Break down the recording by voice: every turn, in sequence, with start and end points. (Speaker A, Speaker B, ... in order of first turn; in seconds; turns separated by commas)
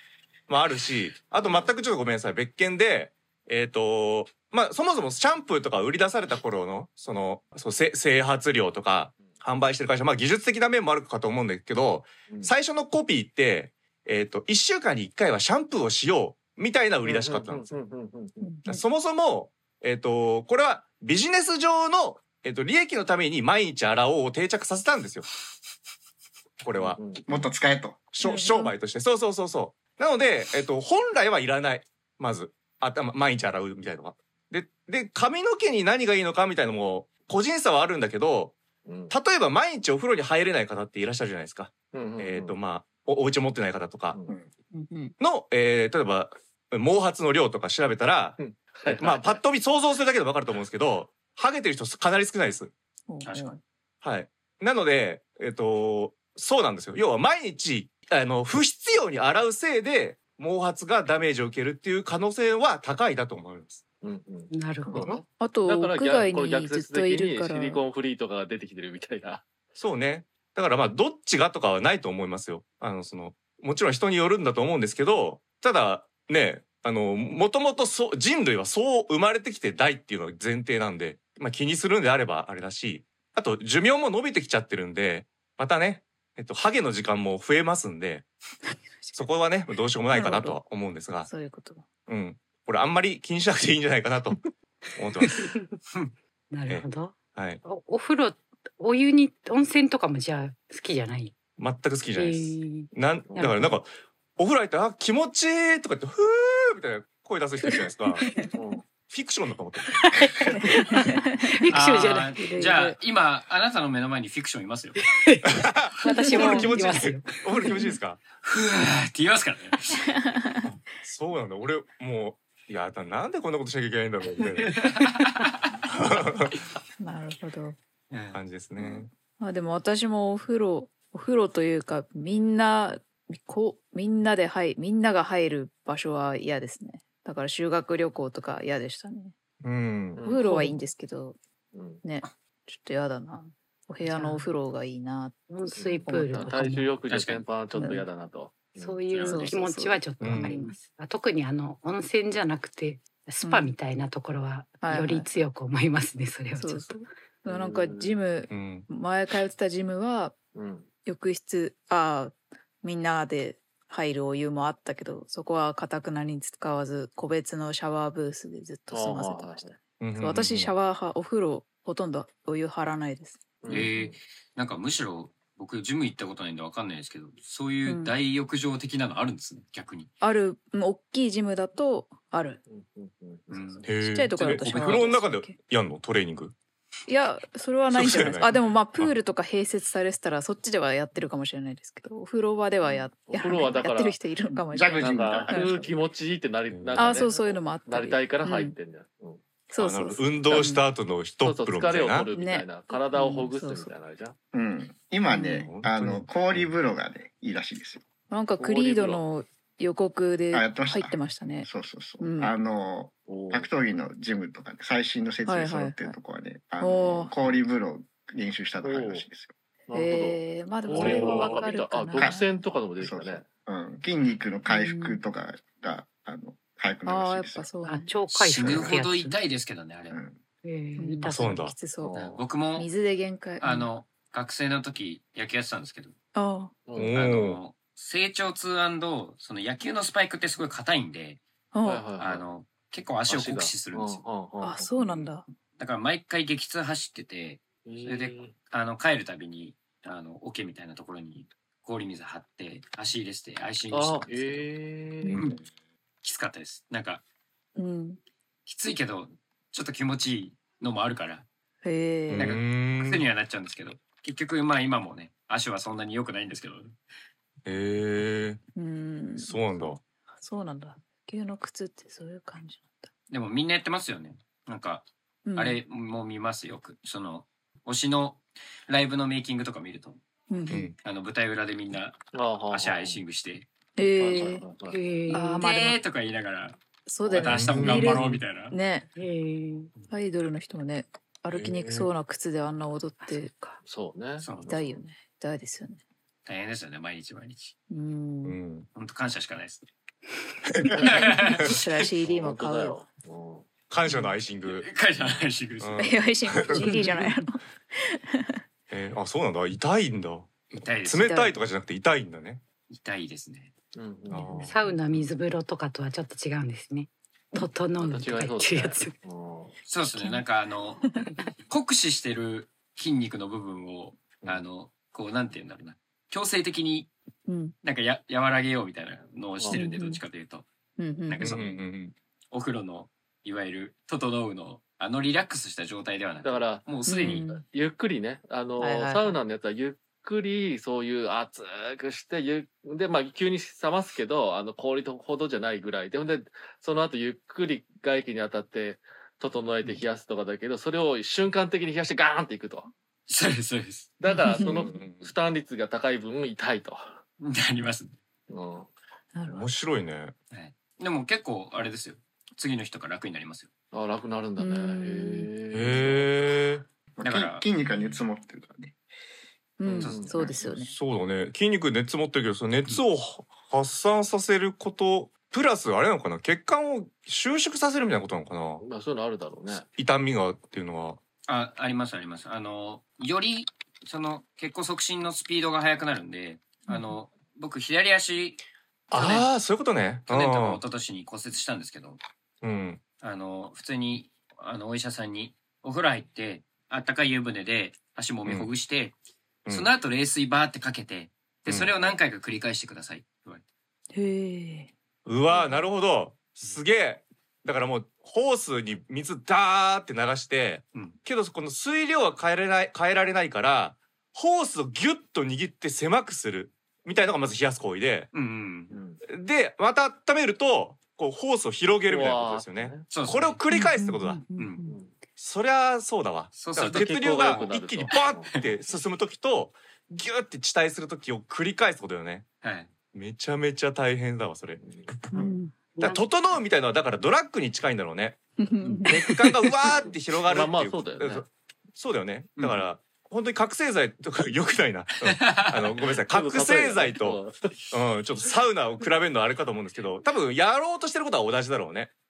Speaker A: 0.5-17.7, Speaker B: 9.2-9.4, Speaker B: 17.0-18.6, Speaker C: 18.4-18.8, Speaker A: 18.6-25.2, Speaker A: 26.6-27.0, Speaker B: 26.7-27.2, Speaker D: 27.2-28.0, Speaker A: 28.1-44.1, Speaker C: 28.2-28.7, Speaker B: 38.8-39.1, Speaker B: 41.9-42.6, Speaker B: 44.1-44.4, Speaker C: 44.7-45.1, Speaker A: 45.2-52.7, Speaker B: 48.4-49.4, Speaker C: 53.1-53.6, Speaker E: 53.2-53.5, Speaker A: 54.0-63.8, Speaker B: 64.0-69.4, Speaker F: 64.5-65.1, Speaker C: 65.4-67.8, Speaker A: 69.8-88.2, Speaker A: 89.1-91.3, Speaker C: 90.1-90.6, Speaker C: 91.2-91.9, Speaker A: 92.1-94.4, Speaker A: 94.9-95.4, Speaker F: 95.3-95.7, Speaker F: 96.5-101.3, Speaker A: 96.7-97.6, Speaker A: 101.6-108.2, Speaker F: 102.1-103.7, Speaker B: 103.3-103.6, Speaker B: 108.5-108.8, Speaker A: 109.0-110.0, Speaker C: 110.5-113.0, Speaker F: 110.5-112.3, Speaker E: 111.7-115.0, Speaker F: 115.1-117.9, Speaker A: 115.4-118.2, Speaker C: 116.1-116.8, Speaker E: 118.4-120.2, Speaker C: 120.1-120.4, Speaker A: 120.6-124.8, Speaker E: 124.7-125.6, Speaker A: 125.9-126.5, Speaker C: 127.0-127.8, Speaker E: 128.1-128.4, Speaker A: 128.3-129.1, Speaker C: 129.4-139.3, Speaker A: 139.6-140.2, Speaker B: 140.1-140.8, Speaker C: 140.2-141.4, Speaker B: 141.7-142.0, Speaker C: 142.0-145.4, Speaker F: 144.0-144.5, Speaker F: 145.5-146.9, Speaker B: 145.7-149.1, Speaker E: 147.1-147.5, Speaker C: 147.8-148.0, Speaker F: 148.8-157.0, Speaker E: 149.1-149.5, Speaker C: 149.2-150.7, Speaker A: 150.2-150.6, Speaker C: 153.4-153.7, Speaker C: 154.8-155.3, Speaker C: 156.6-160.3, Speaker B: 157.4-158.2, Speaker A: 158.5-158.9, Speaker B: 160.5-160.9, Speaker C: 161.0-173.4, Speaker B: 168.9-169.7, Speaker A: 170.0-170.7, Speaker B: 173.6-174.2, Speaker E: 173.7-180.1, Speaker C: 177.8-178.2, Speaker C: 180.2-182.6, Speaker B: 182.7-183.8, Speaker E: 183.5-185.1, Speaker A: 183.8-186.5, Speaker C: 183.9-185.6, Speaker C: 187.1-195.8, Speaker A: 187.9-189.1, Speaker B: 192.8-194.2, Speaker D: 194.7-196.0, Speaker B: 194.9-199.4, Speaker A: 196.7-197.2, Speaker C: 197.0-198.7, Speaker C: 199.7-200.8, Speaker A: 199.8-202.3, Speaker B: 201.4-204.3, Speaker C: 202.3-203.9, Speaker D: 204.5-208.0, Speaker C: 205.3-205.7, Speaker A: 205.5-206.7, Speaker C: 208.3-212.5, Speaker B: 208.6-209.2, Speaker D: 210.5-219.5, Speaker B: 213.3-213.7, Speaker C: 215.4-216.1, Speaker C: 216.8-217.3, Speaker B: 218.8-219.2, Speaker B: 219.9-223.5, Speaker C: 219.9-222.4, Speaker A: 220.9-221.6, Speaker D: 222.1-222.4, Speaker D: 223.0-227.7, Speaker C: 224.7-225.2, Speaker C: 227.1-228.1, Speaker F: 227.8-229.3, Speaker E: 228.3-230.2, Speaker D: 230.1-230.4, Speaker F: 230.6-231.5, Speaker C: 231.0-232.2, Speaker A: 231.3-231.8, Speaker B: 232.0-232.4, Speaker E: 232.1-232.9, Speaker C: 232.7-233.9, Speaker E: 233.6-236.1, Speaker C: 236.3-236.8, Speaker B: 236.8-237.2, Speaker A: 236.9-237.6, Speaker E: 237.1-241.4, Speaker C: 241.7-242.1, Speaker B: 241.8-242.4, Speaker E: 242.2-244.3, Speaker B: 243.3-245.3, Speaker C: 244.6-245.4, Speaker E: 245.8-254.7, Speaker B: 247.8-248.5, Speaker B: 253.9-255.5, Speaker E: 255.3-255.6, Speaker E: 256.2-257.2, Speaker C: 257.8-258.2, Speaker E: 258.6-261.4, Speaker C: 261.8-262.6, Speaker A: 262.3-263.2, Speaker E: 262.3-266.9, Speaker A: 267.6-268.6, Speaker C: 268.7-269.6, Speaker A: 269.4-270.0, Speaker C: 270.4-273.1, Speaker E: 273.3-280.2, Speaker C: 275.4-275.8, Speaker C: 280.5-280.9, Speaker A: 280.7-280.9, Speaker E: 281.0-282.2, Speaker B: 282.3-283.2, Speaker E: 282.7-283.7, Speaker C: 284.0-284.6, Speaker B: 284.0-285.0, Speaker F: 284.9-285.6, Speaker C: 285.3-286.0, Speaker E: 285.6-286.8, Speaker C: 287.1-289.1, Speaker E: 287.3-288.8, Speaker A: 287.4-288.4, Speaker F: 289.1-289.9, Speaker C: 290.1-293.6, Speaker A: 291.5-292.1, Speaker F: 293.2-293.8, Speaker B: 293.8-295.0, Speaker E: 294.4-294.8, Speaker C: 294.7-296.0, Speaker E: 296.4-297.8, Speaker C: 297.9-298.6, Speaker A: 298.4-298.9, Speaker E: 298.9-299.9, Speaker A: 300.6-301.0, Speaker E: 301.0-302.0, Speaker B: 301.0-301.3, Speaker C: 301.1-303.0, Speaker B: 302.2-303.7, Speaker A: 303.9-304.9, Speaker E: 304.6-306.0, Speaker A: 305.8-307.1, Speaker C: 306.0-308.6, Speaker A: 308.9-312.6, Speaker E: 310.7-311.2, Speaker C: 311.1-311.5, Speaker E: 312.9-313.7, Speaker B: 313.9-314.8, Speaker A: 314.3-315.2, Speaker F: 314.6-319.1, Speaker B: 318.0-319.8, Speaker E: 319.9-327.1, Speaker C: 320.1-320.4, Speaker C: 327.5-327.7, Speaker E: 327.8-330.7, Speaker B: 329.6-329.8, Speaker C: 329.7-330.2, Speaker C: 331.0-331.6, Speaker E: 331.3-331.8, Speaker A: 331.4-332.1, Speaker E: 332.5-337.5, Speaker B: 336.4-352.9, Speaker C: 337.1-337.6, Speaker C: 338.8-339.4, Speaker E: 353.3-354.1, Speaker B: 354.2-357.2, Speaker C: 354.3-354.9, Speaker A: 354.8-355.3, Speaker E: 357.4-358.1, Speaker B: 358.5-358.9, Speaker C: 359.3-359.7, Speaker A: 359.5-360.3, Speaker E: 360.5-363.7, Speaker B: 363.9-366.3, Speaker C: 364.6-365.5, Speaker A: 365.7-366.8, Speaker D: 367.1-368.9, Speaker E: 367.2-368.2, Speaker C: 369.8-370.9, Speaker B: 369.8-370.6, Speaker E: 370.0-370.5, Speaker A: 370.6-378.8, Speaker B: 378.8-379.9, Speaker A: 379.9-381.2, Speaker E: 381.5-388.6, Speaker A: 389.1-390.8, Speaker E: 389.1-389.5, Speaker E: 390.3-392.2, Speaker A: 392.6-393.0, Speaker E: 393.2-399.1, Speaker A: 399.6-399.9, Speaker E: 399.7-403.6, Speaker A: 401.7-402.0, Speaker C: 404.1-404.9, Speaker A: 405.2-418.3, Speaker E: 418.3-419.0, Speaker B: 418.9-419.2, Speaker A: 419.2-424.4, Speaker B: 422.1-423.1, Speaker E: 423.1-423.6, Speaker C: 423.7-425.0, Speaker E: 424.6-424.9, Speaker B: 424.9-425.2, Speaker A: 425.3-432.5, Speaker E: 426.5-428.6, Speaker B: 426.8-428.6, Speaker E: 432.6-432.9, Speaker A: 433.1-435.3, Speaker B: 434.8-435.5, Speaker C: 435.3-435.9, Speaker F: 435.9-436.2, Speaker A: 436.0-452.1, Speaker C: 438.6-439.5, Speaker B: 439.9-441.5, Speaker E: 445.2-446.0, Speaker B: 446.3-447.9